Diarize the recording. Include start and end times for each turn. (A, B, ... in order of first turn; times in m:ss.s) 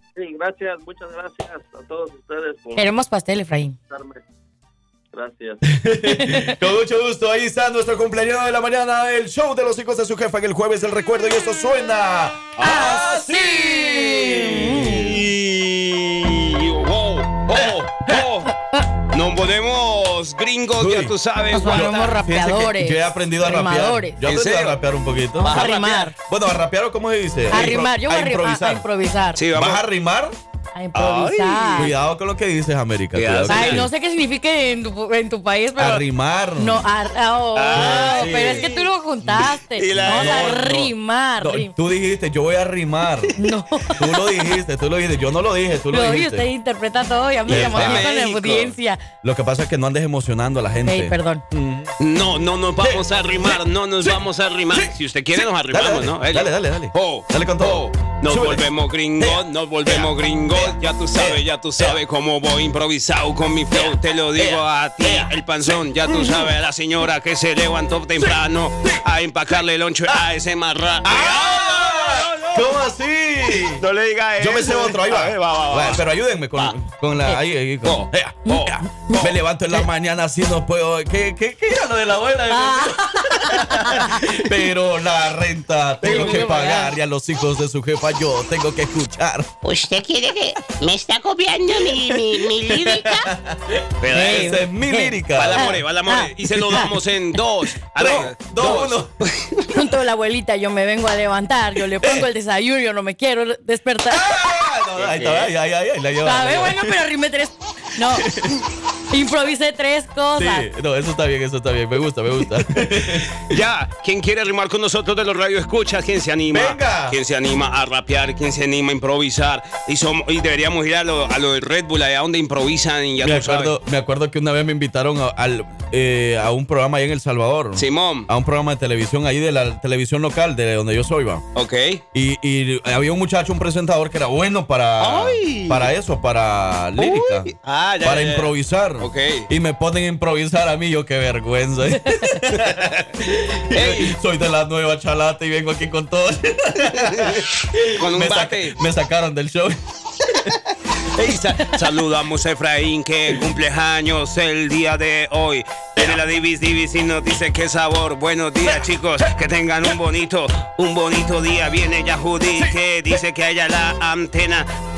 0:00.2-0:02.9 A
0:02.8-0:03.8 B
0:03.9-0:04.2 A
0:05.1-0:05.6 A
0:05.7-0:15.2 C
0:06.0-0:06.6 B
0:12.6-0:13.0 D
0:12.6-0:15.1 B
0:14.8-0:18.5 D
0:17.5-0:18.2 C
0:19.1-0:22.2 D
0:20.8-0:28.8 C
0:21.5-0:24.2 B
0:24.2-0:24.8 D
0:25.4-0:26.1 B
0:25.4-0:26.1 D
0:27.5-0:29.4 B
0:29.4-0:29.8 D
0:29.5-0:30.4 C
0:30.7-0:31.9 B
0:30.9-0:31.9 D
0:31.7-0:33.9 C
0:33.1-0:33.9 D
0:33.5-0:36.0 B
0:35.8-0:36.8 C
0:36.6-0:41.7 B
0:37.5-0:38.7 D
0:37.7-0:38.7 C
0:39.7-0:40.6 D
0:40.0-0:43.3 C
0:43.4-0:44.1 B
0:44.0-0:46.5 C
0:45.9-0:49.0 B
0:47.5-0:48.1 C
0:47.5-0:48.7 D
0:49.2-0:51.9 C
0:50.8-0:51.4 B
0:52.0-1:12.7 D
0:52.8-0:54.2 C
0:54.7-0:58.6 C
0:59.2-1:02.0 C
1:04.4-1:05.3 C
1:06.0-1:06.5 C
1:08.2-1:09.0 C
1:11.0-1:13.8 C
1:13.5-1:16.0 D
1:14.4-1:29.5 C
1:17.8-1:19.3 D
1:22.5-1:24.2 B
1:26.0-1:26.9 B
1:26.0-1:26.4 D
1:29.6-1:33.3 E
1:31.9-1:35.8 C
1:34.0-1:34.6 D
1:34.1-1:36.9 B
1:35.3-1:39.6 D
1:38.0-1:39.1 C
1:39.7-1:44.3 B
1:42.0-1:42.3 C
1:44.1-1:47.0 C
1:45.0-1:45.5 D
1:46.2-1:48.3 B
1:48.2-1:48.5 C
1:49.1-1:50.7 B
1:50.4-1:53.4 C
1:53.4-2:03.7 D
1:56.5-1:57.2 C
2:03.2-2:11.4 C
2:07.8-2:08.3 D
2:11.5-2:12.0 D
2:12.1-2:17.5 C
2:15.0-2:15.9 D
2:17.0-2:19.5 D
2:18.0-2:29.8 C
2:22.5-2:23.1 D
2:23.7-2:24.1 D
2:26.9-2:28.8 D
2:31.2-2:44.7 D
2:36.0-2:36.2 C